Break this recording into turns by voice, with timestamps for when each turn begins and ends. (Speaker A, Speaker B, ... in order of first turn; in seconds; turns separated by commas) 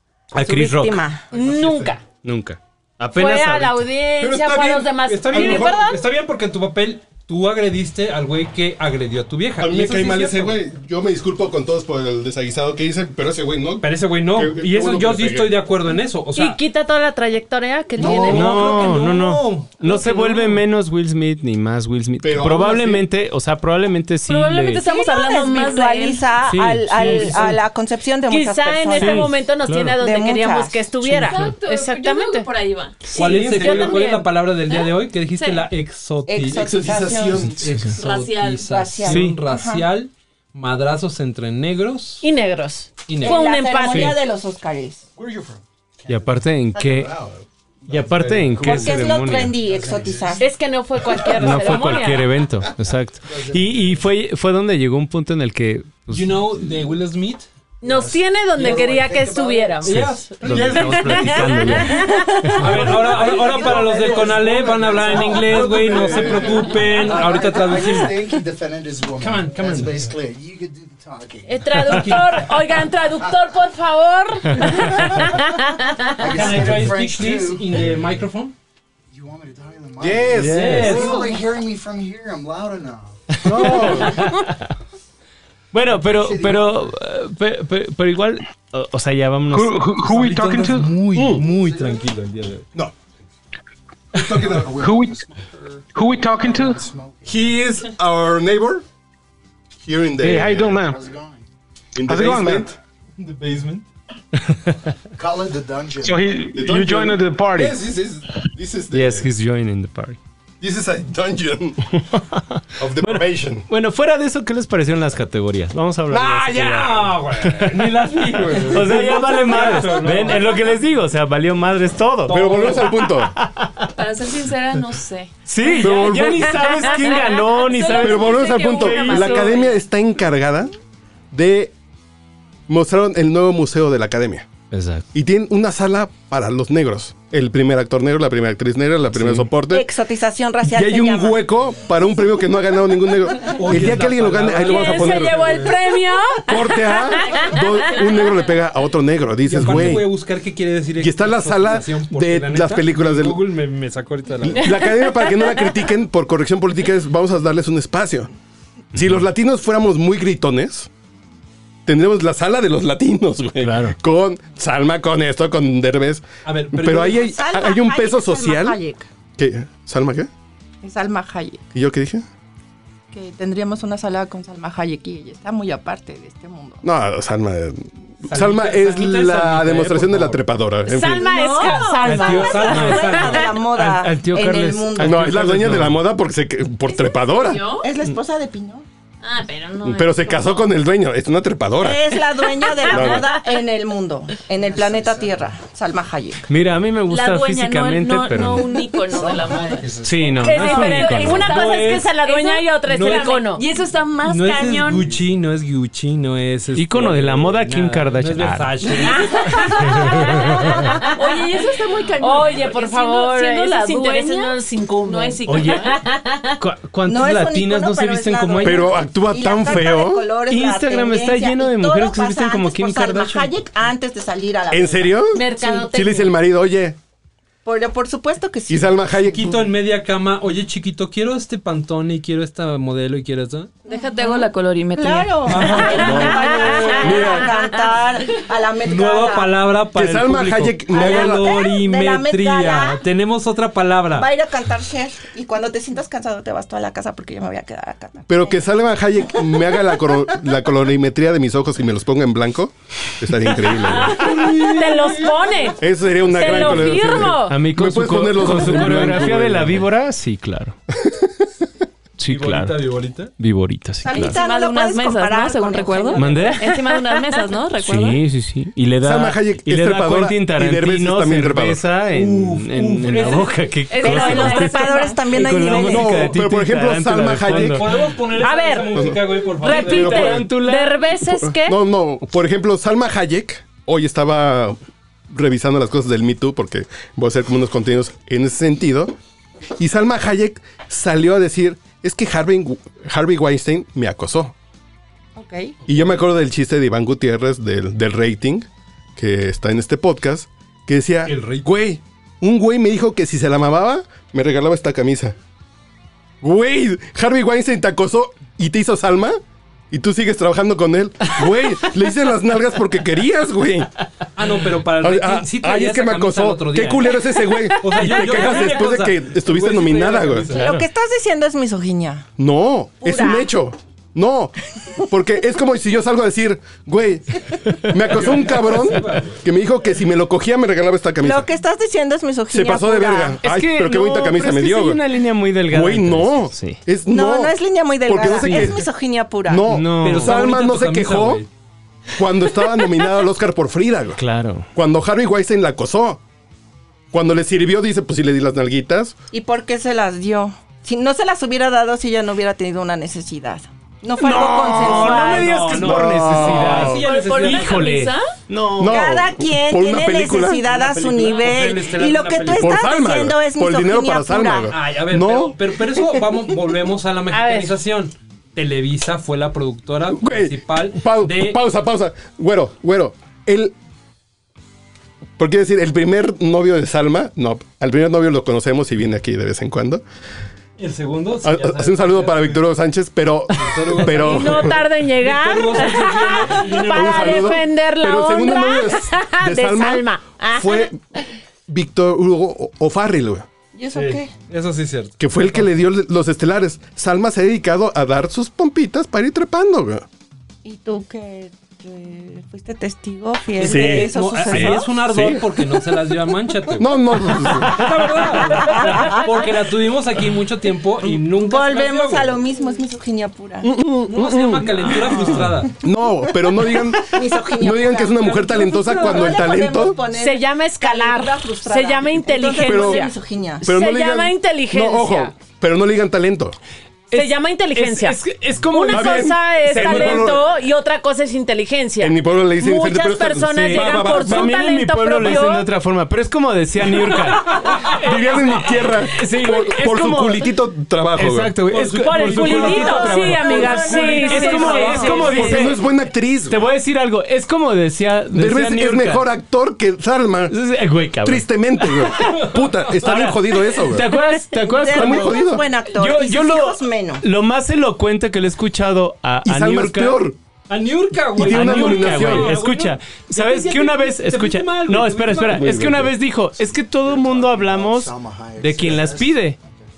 Speaker A: 0.3-1.0, Speaker B: 0.3-1.3, Speaker C: 1.3-2.0, Speaker D: 1.3-1.9, Speaker A: 2.2-3.9, Speaker C: 3.1-6.0, Speaker D: 4.2-5.9, Speaker E: 5.1-10.6, Speaker D: 9.6-15.6, Speaker E: 13.8-16.6, Speaker C: 16.4-19.0, Speaker E: 18.0-20.4, Speaker A: 18.1-24.8, Speaker C: 19.9-20.6, Speaker D: 22.2-23.1, Speaker F: 24.3-26.3, Speaker B: 24.8-29.4, Speaker A: 26.5-27.6, Speaker E: 26.9-27.6, Speaker C: 28.3-32.5, Speaker A: 28.9-30.0, Speaker B: 30.0-30.9, Speaker F: 31.1-33.9, Speaker A: 31.2-31.5, Speaker C: 33.1-34.3, Speaker E: 33.1-42.2, Speaker F: 34.7-35.0, Speaker B: 36.3-37.5, Speaker D: 36.5-37.9, Speaker F: 38.0-38.7, Speaker B: 38.7-39.9, Speaker A: 39.1-39.4, Speaker C: 42.2-44.2, Speaker E: 43.1-44.1, Speaker B: 43.2-45.0, Speaker G: 45.2-47.3, Speaker A: 46.1-47.1, Speaker D: 46.9-47.4, Speaker D: 47.9-49.0, Speaker A: 47.9-49.6, Speaker B: 48.6-50.5, Speaker G: 49.6-50.5, Speaker C: 50.4-52.3, Speaker G: 51.0-51.8, Speaker A: 51.3-56.6, Speaker G: 53.2-54.0, Speaker E: 56.1-57.5, Speaker C: 57.8-62.6, Speaker G: 57.8-60.0, Speaker E: 59.8-61.4, Speaker A: 60.0-62.9, Speaker D: 60.5-61.0, Speaker E: 62.6-68.2, Speaker G: 62.6-72.3, Speaker D: 63.9-64.3, Speaker D: 65.1-66.9, Speaker E: 69.2-70.1, Speaker C: 71.5-76.5, Speaker E: 71.8-72.5, Speaker G: 72.9-73.4, Speaker G: 76.2-78.0, Speaker E: 76.2-78.5, Speaker G: 79.1-84.3, Speaker D: 80.0-81.1, Speaker A: 80.4-81.1, Speaker E: 80.4-81.3, Speaker A: 83.4-84.6, Speaker D: 83.5-84.2, Speaker A: 85.7-89.8, Speaker G: 85.8-86.9, Speaker H: 89.5-91.1, Speaker E: 90.0-92.7, Speaker D: 91.1-91.5, Speaker G: 91.3-92.1, Speaker D: 94.1-94.9, Speaker G: 94.2-97.6, Speaker H: 94.8-95.2, Speaker H: 95.9-96.9, Speaker D: 97.3-98.8, Speaker D: 99.8-100.8, Speaker H: 100.2-101.0, Speaker G: 100.5-101.4, Speaker D: 102.0-102.8, Speaker H: 102.1-102.7, Speaker E: 103.2-103.8, Speaker G: 105.2-106.3, Speaker H: 106.0-107.8, Speaker D: 106.5-109.3, Speaker A: 108.9-110.2, Speaker D: 110.6-112.0, Speaker A: 112.1-123.9, Speaker D: 112.8-113.7, Speaker E: 116.1-120.5, Speaker D: 118.3-120.1, Speaker E: 122.3-122.9, Speaker D: 122.3-123.3, Speaker F: 123.9-126.2, Speaker A: 125.5-129.4, Speaker D: 125.8-126.5, Speaker F: 126.8-129.8, Speaker D: 128.0-130.7, Speaker D: 131.3-131.7, Speaker D: 132.7-134.5, Speaker A: 134.7-135.1, Speaker D: 135.1-139.9, Speaker A: 139.1-139.5, Speaker B: 139.7-141.5, Speaker D: 140.6-145.7, Speaker E: 143.6-145.7, Speaker C: 144.6-147.6, Speaker D: 146.5-150.1, Speaker E: 149.5-154.7, Speaker D: 151.0-153.4, Speaker D: 154.4-158.3, Speaker D: 158.9-160.9, Speaker D: 161.9-168.8, Speaker A: 163.6-164.0, Speaker E: 166.4-167.3, Speaker B: 167.1-169.1, Speaker D: 169.4-170.3, Speaker B: 170.8-171.6, Speaker D: 171.7-172.3, Speaker B: 173.1-176.8, Speaker D: 176.8-181.3, Speaker E: 178.3-180.4, Speaker C: 180.9-183.5, Speaker B: 180.9-185.6, Speaker E: 182.0-183.6, Speaker A: 183.7-186.0, Speaker D: 185.0-187.6, Speaker F: 186.9-187.9, Speaker B: 187.8-188.9, Speaker F: 189.2-190.7, Speaker D: 189.8-192.0, Speaker B: 191.8-196.4, Speaker D: 192.9-193.3, Speaker G: 194.6-195.6, Speaker A: 196.5-198.7, Speaker F: 197.1-199.9, Speaker G: 199.0-200.6, Speaker A: 200.0-201.5, Speaker C: 200.4-203.7, Speaker F: 200.4-205.1, Speaker E: 200.7-202.2, Speaker E: 202.9-203.4, Speaker E: 204.2-209.8, Speaker G: 204.9-205.2, Speaker A: 206.8-208.9, Speaker C: 209.2-211.4, Speaker F: 209.2-210.1, Speaker F: 210.7-216.0, Speaker C: 212.2-216.6, Speaker A: 215.5-215.9, Speaker A: 216.6-218.7, Speaker B: 217.1-225.9, Speaker D: 218.6-220.2, Speaker A: 220.5-223.6, Speaker D: 224.7-227.0, Speaker C: 225.3-226.3, Speaker B: 227.7-229.0, Speaker D: 228.7-229.7, Speaker E: 229.3-233.7, Speaker F: 233.9-236.2, Speaker B: 233.9-239.5, Speaker E: 235.5-237.1, Speaker D: 236.0-237.5, Speaker E: 238.8-244.3, Speaker D: 239.9-241.6, Speaker B: 240.9-243.0, Speaker B: 244.2-248.6, Speaker D: 248.3-254.3, Speaker C: 254.0-257.6, Speaker E: 254.2-255.3, Speaker D: 255.8-259.8, Speaker A: 256.7-260.8, Speaker D: 261.0-261.3, Speaker A: 262.2-262.8, Speaker E: 262.3-263.3, Speaker A: 263.4-264.4, Speaker B: 264.0-266.5, Speaker F: 264.1-268.2, Speaker A: 266.1-266.7, Speaker A: 267.8-277.9, Speaker D: 269.0-271.8, Speaker E: 272.1-273.7, Speaker F: 273.9-275.8, Speaker B: 274.0-276.2, Speaker D: 275.8-278.0, Speaker E: 277.5-280.3, Speaker C: 278.4-281.8, Speaker D: 278.9-279.2, Speaker A: 279.7-281.0, Speaker D: 279.7-280.4, Speaker D: 281.2-284.8, Speaker D: 285.3-289.1, Speaker D: 289.8-294.5, Speaker B: 295.4-295.8, Speaker D: 295.9-305.4, Speaker E: 301.3-301.7, Speaker D: 306.4-309.4, Speaker D: 309.9-313.9, Speaker E: 314.4-317.2, Speaker D: 314.9-320.5, Speaker E: 317.8-320.7, Speaker B: 320.5-322.3, Speaker A: 320.6-320.9, Speaker D: 322.4-331.5, Speaker B: 323.0-323.5, Speaker E: 328.1-329.4, Speaker B: 331.2-333.4, Speaker D: 332.5-335.0, Speaker A: 333.4-336.8, Speaker D: 335.7-338.9, Speaker B: 337.1-339.7, Speaker A: 338.4-338.8, Speaker D: 339.5-341.4, Speaker A: 339.7-340.4, Speaker E: 340.0-341.5, Speaker D: 342.2-344.2, Speaker A: 344.2-344.7, Speaker D: 344.8-346.2, Speaker D: 347.1-349.1, Speaker B: 349.3-355.8, Speaker A: 354.2-359.1, Speaker E: 354.8-357.9, Speaker D: 355.8-357.0, Speaker F: 357.0-358.3, Speaker D: 358.8-360.6, Speaker B: 358.9-364.7, Speaker E: 360.6-362.8, Speaker D: 362.5-365.6, Speaker E: 364.7-371.6, Speaker C: 367.3-367.7, Speaker D: 370.1-373.8, Speaker D: 375.4-380.0, Speaker E: 380.8-382.6, Speaker D: 381.4-384.8, Speaker E: 383.6-387.6, Speaker C: 384.1-390.9, Speaker D: 386.9-391.0, Speaker D: 391.7-393.5, Speaker B: 393.7-394.3, Speaker E: 393.9-395.7, Speaker D: 395.2-400.1, Speaker B: 400.6-405.4, Speaker D: 403.6-405.4, Speaker E: 403.6-412.4, Speaker D: 406.7-408.1, Speaker B: 408.6-409.4, Speaker B: 411.0-413.7, Speaker D: 413.6-420.0, Speaker E: 414.1-415.7, Speaker B: 417.0-423.7, Speaker E: 418.2-419.3, Speaker C: 420.1-425.4, Speaker D: 422.6-423.1, Speaker D: 423.6-426.6, Speaker A: 427.1-430.3, Speaker C: 427.1-435.7, Speaker D: 428.9-430.5, Speaker D: 432.0-434.5, Speaker A: 433.5-440.5, Speaker D: 437.9-441.6, Speaker A: 441.1-445.8, Speaker E: 441.7-445.6, Speaker C: 441.9-445.6, Speaker F: 444.4-445.4, Speaker B: 444.7-445.2, Speaker D: 445.4-446.6, Speaker A: 446.5-449.3, Speaker D: 448.3-450.6, Speaker A: 450.5-452.4, Speaker D: 451.2-454.1, Speaker A: 453.0-460.2, Speaker B: 454.5-457.2, Speaker D: 454.9-455.6, Speaker D: 459.4-460.4, Speaker E: 460.7-465.8, Speaker D: 461.3-462.6, Speaker A: 461.4-469.6, Speaker D: 465.5-466.1, Speaker G: 466.6-469.9